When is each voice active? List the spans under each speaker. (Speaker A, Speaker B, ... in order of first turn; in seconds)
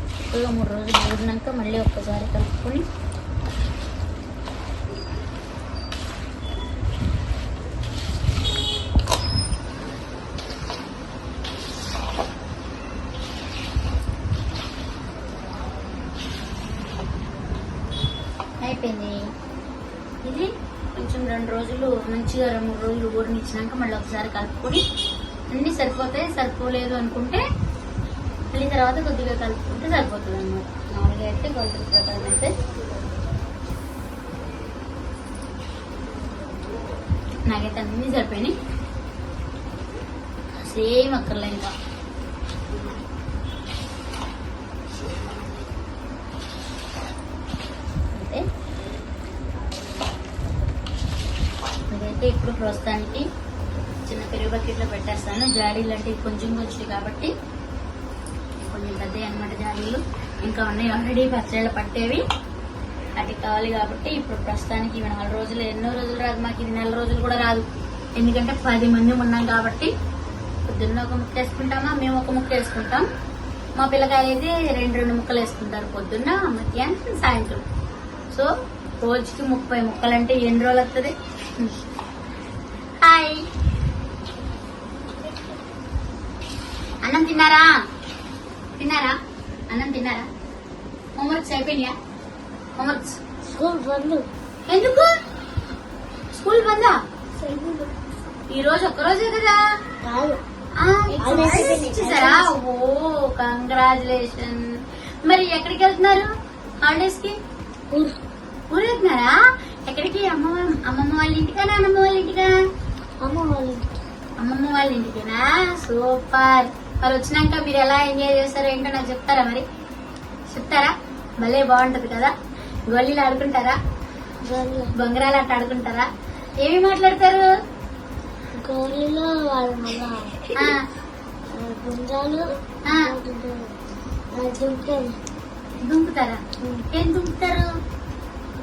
Speaker A: 0.3-2.9, 18.6-19.1, 20.2-24.8, 25.5-27.4, 28.5-32.5, 37.5-38.5, 40.6-41.7, 48.1-48.4, 51.9-53.2, 54.1-57.3, 58.6-62.2, 63.2-67.7, 68.2-69.9, 70.7-73.1, 73.8-77.6, 79.0-81.7, 83.0-83.4, 87.0-87.6, 88.8-89.1, 89.7-90.2, 91.2-91.9, 92.8-93.2, 94.7-95.1, 96.3-97.0, 98.5-99.6, 100.8-104.6, 105.2-106.3, 106.8-107.3, 108.7-109.3, 109.9-112.5, 114.4-119.6, 120.5-122.3, 122.9-123.8, 125.0-126.0, 126.6-127.5, 132.8-133.1, 135.8-137.7
Speaker B: 93.5-94.2, 97.4-97.9, 100.0-100.4, 101.2-102.5, 113.2-114.0, 124.4-124.9, 128.6-130.7, 131.5-133.7, 134.3-135.1